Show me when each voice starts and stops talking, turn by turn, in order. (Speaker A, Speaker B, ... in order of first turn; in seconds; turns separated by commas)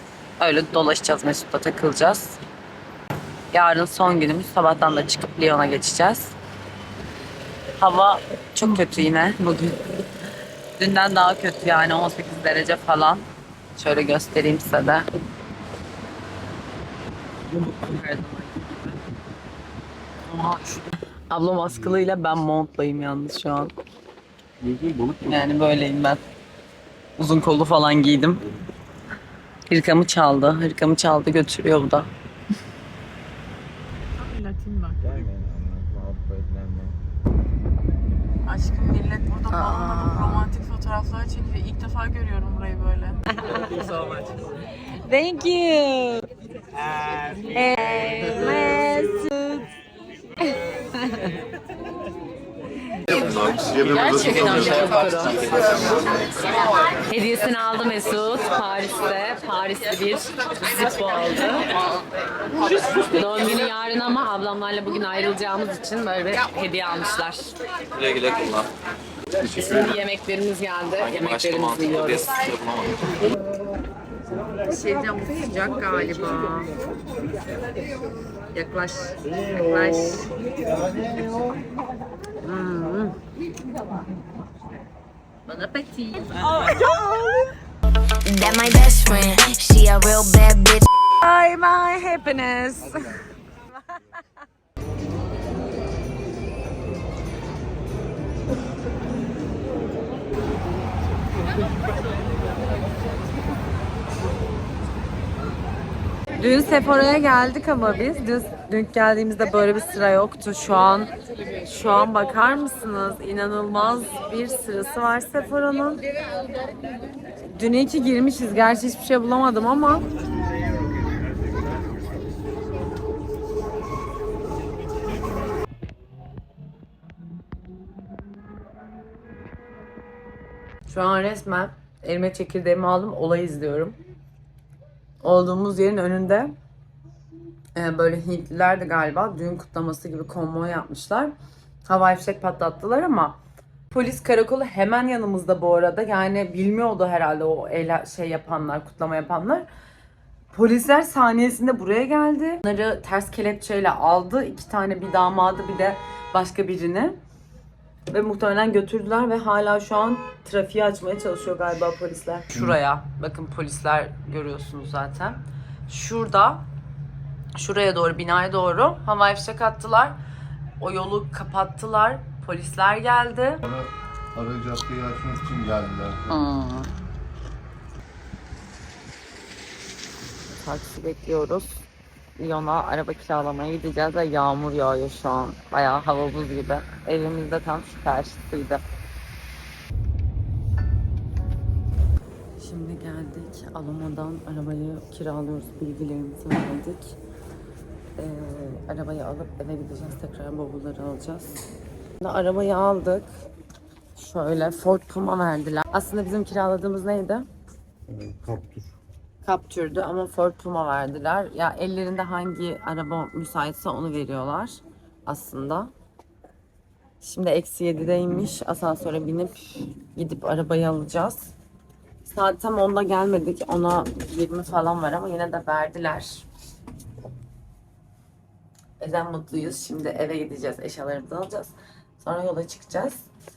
Speaker A: 0.4-2.4, Speaker A: 3.5-6.3, Speaker A: 7.8-10.0, Speaker A: 10.8-15.1, Speaker A: 17.5-19.0, Speaker A: 20.2-23.7, Speaker B: 24.6-25.4, Speaker A: 25.2-26.2, Speaker A: 27.2-28.4, Speaker A: 29.7-32.1, Speaker C: 34.2-35.0, Speaker D: 35.0-37.0, Speaker C: 38.4-43.2, Speaker A: 39.5-40.5, Speaker A: 43.3-44.2, Speaker A: 44.9-46.3, Speaker A: 47.5-49.7, Speaker A: 50.4-51.4, Speaker B: 53.1-54.9, Speaker A: 53.9-55.4, Speaker C: 54.4-54.7, Speaker D: 54.9-56.0, Speaker A: 57.1-61.7, Speaker A: 63.1-67.5, Speaker D: 67.9-68.7, Speaker A: 69.4-72.3, Speaker D: 71.0-73.2, Speaker A: 74.7-76.7, Speaker A: 78.5-80.2, Speaker A: 82.4-83.2, Speaker A: 85.5-87.5, Speaker E: 88.2-90.9, Speaker A: 91.2-93.2, Speaker A: 106.4-111.1, Speaker A: 111.6-116.0, Speaker A: 117.5-120.1, Speaker A: 130.9-134.0, Speaker A: 135.2-136.6, Speaker A: 137.7-141.3, Speaker A: 141.8-143.4, Speaker A: 143.9-149.7, Speaker A: 150.5-157.2, Speaker A: 158.1-166.6, Speaker A: 167.6-170.2, Speaker A: 170.8-173.6, Speaker B: 173.6-176.4, Speaker A: 176.3-176.9, Speaker A: 180.6-181.8, Speaker A: 182.4-188.8, Speaker A: 192.6-197.2, Speaker A: 198.2-201.5, Speaker A: 202.2-203.3, Speaker A: 204.2-207.5, Speaker B: 208.2-208.9, Speaker A: 209.4-215.9, Speaker A: 217.2-221.5, Speaker A: 222.2-226.4, Speaker A: 229.0-233.2